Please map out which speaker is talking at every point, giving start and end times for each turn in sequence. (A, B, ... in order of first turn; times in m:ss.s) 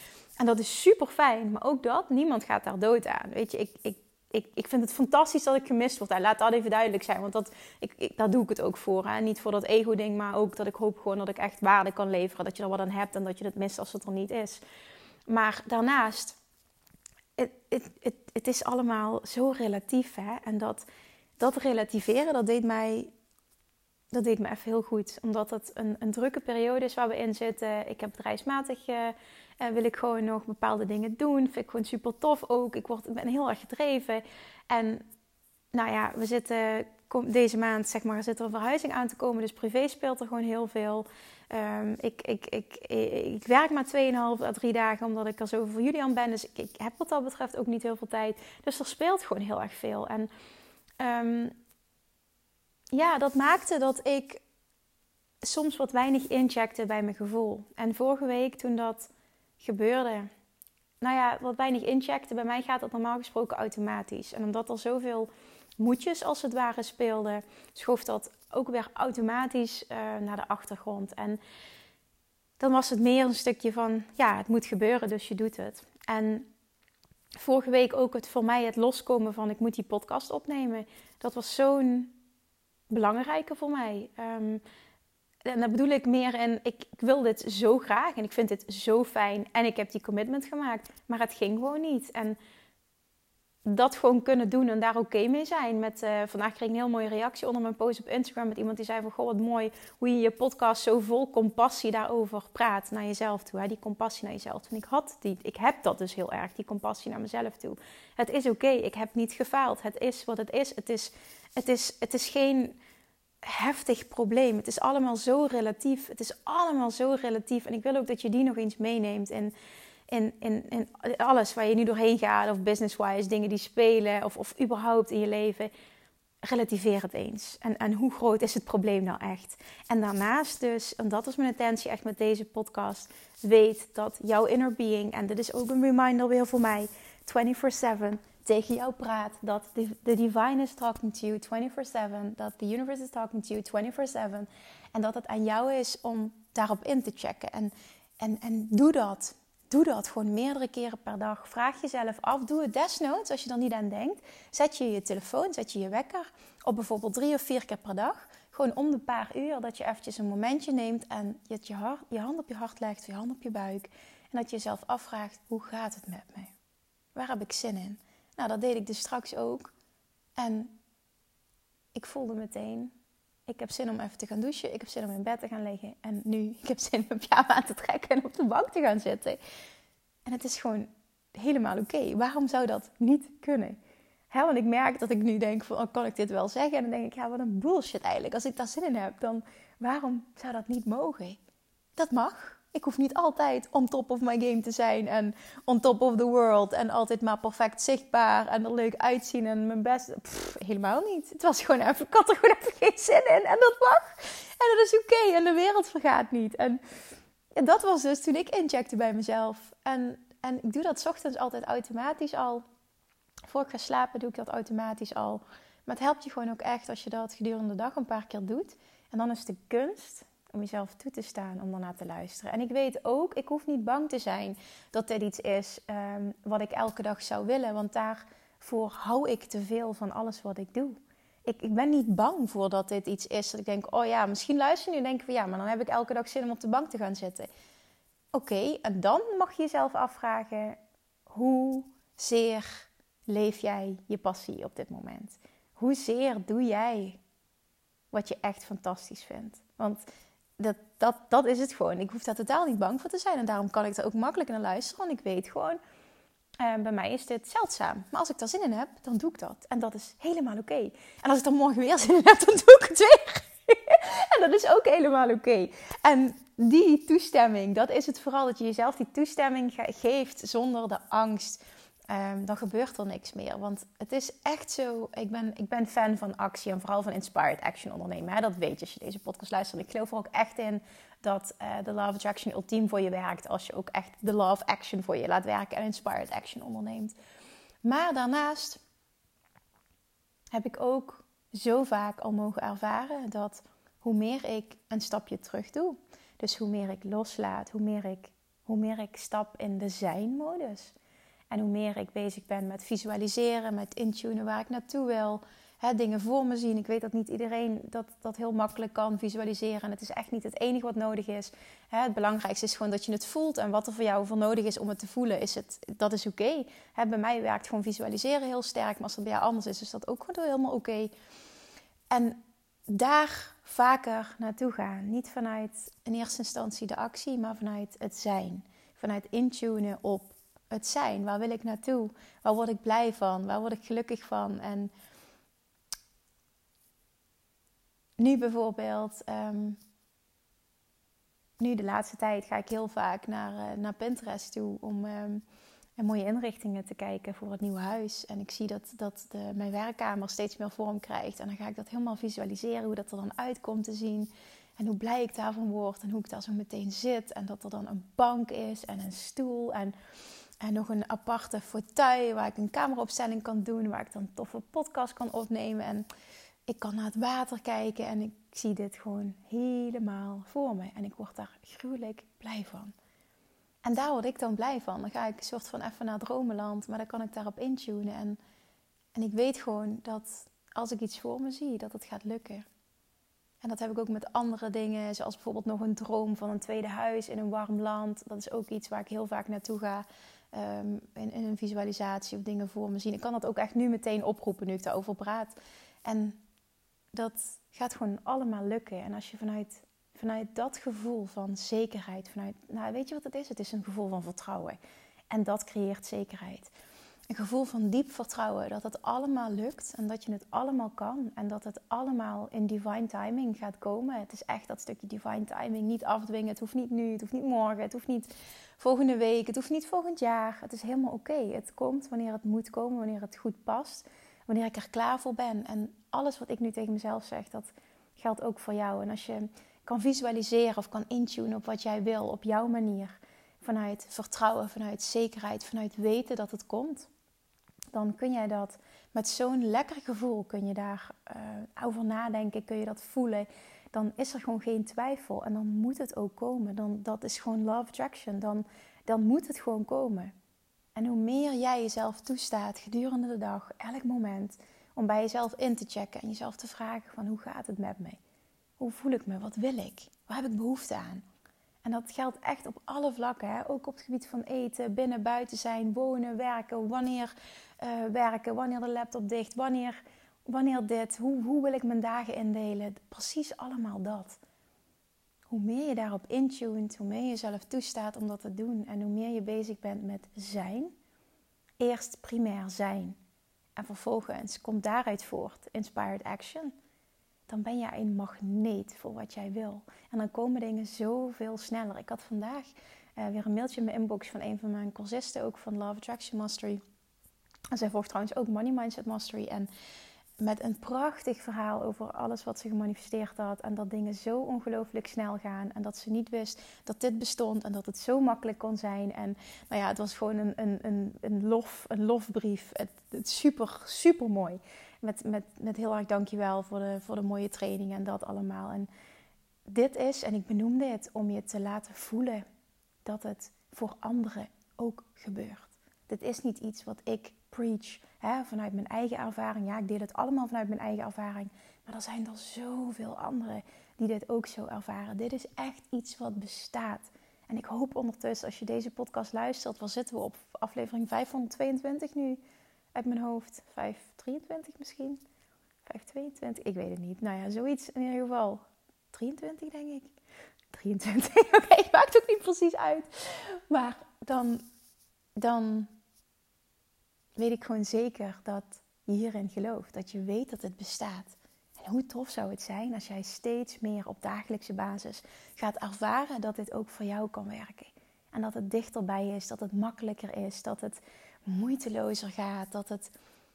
0:00.4-0:14.6 A
0:15.3-0:16.4 A
0:17.4-0:20.8 A
0:21.4-0:23.1 A
0:24.1-0:35.0 A
0:35.7-0:50.3 A
0:51.0-0:51.5 A
0:52.9-0:54.4 A
0:55.4-1:00.3 A
1:01.0-1:11.4 A
1:12.6-1:16.5 A
1:17.4-1:22.1 A
1:22.9-1:24.6 A
1:25.4-1:32.4 A
1:33.6-1:52.8 A
1:53.4-1:59.5 A
2:00.1-2:05.7 A
2:06.4-2:46.5 A
2:47.1-2:49.7 A
2:50.4-2:50.8 A
2:51.9-2:52.9 A
2:53.5-2:59.4 A
3:00.2-3:03.8 A
3:04.3-3:11.4 A
3:12.0-3:26.8 A
3:27.6-3:32.6 A
3:33.5-3:57.5 A
3:58.3-4:07.2 A
4:08.1-4:10.0 A
4:10.6-4:15.8 A
4:16.6-4:47.1 A
4:47.8-4:48.8 A
4:50.5-5:00.9 A
5:01.5-5:21.1 A
5:22.1-5:34.9 A
5:38.2-5:39.8 A
5:41.6-5:45.4 A
5:46.0-6:00.0 A
6:00.6-6:06.1 A
6:06.7-6:12.9 A
6:13.8-6:18.4 A
6:19.1-6:22.6 A
6:23.6-6:36.4 A
6:37.1-6:44.8 A
6:45.3-6:46.7 A
6:47.3-7:17.1 A
7:17.9-7:30.3 A
7:30.9-7:38.2 A
7:38.8-7:41.2 A
7:41.8-7:54.4 A
7:55.5-8:00.9 A
8:01.8-8:03.2 A
8:03.8-8:06.7 A
8:07.5-8:16.8 A
8:17.7-8:19.7 A
8:20.4-8:38.9 A
8:39.6-8:42.4 A
8:43.0-9:02.4 A
9:02.9-9:05.2 A
9:05.8-9:10.1 A
9:10.7-9:14.6 A
9:15.4-9:15.9 A
9:17.4-9:33.1 A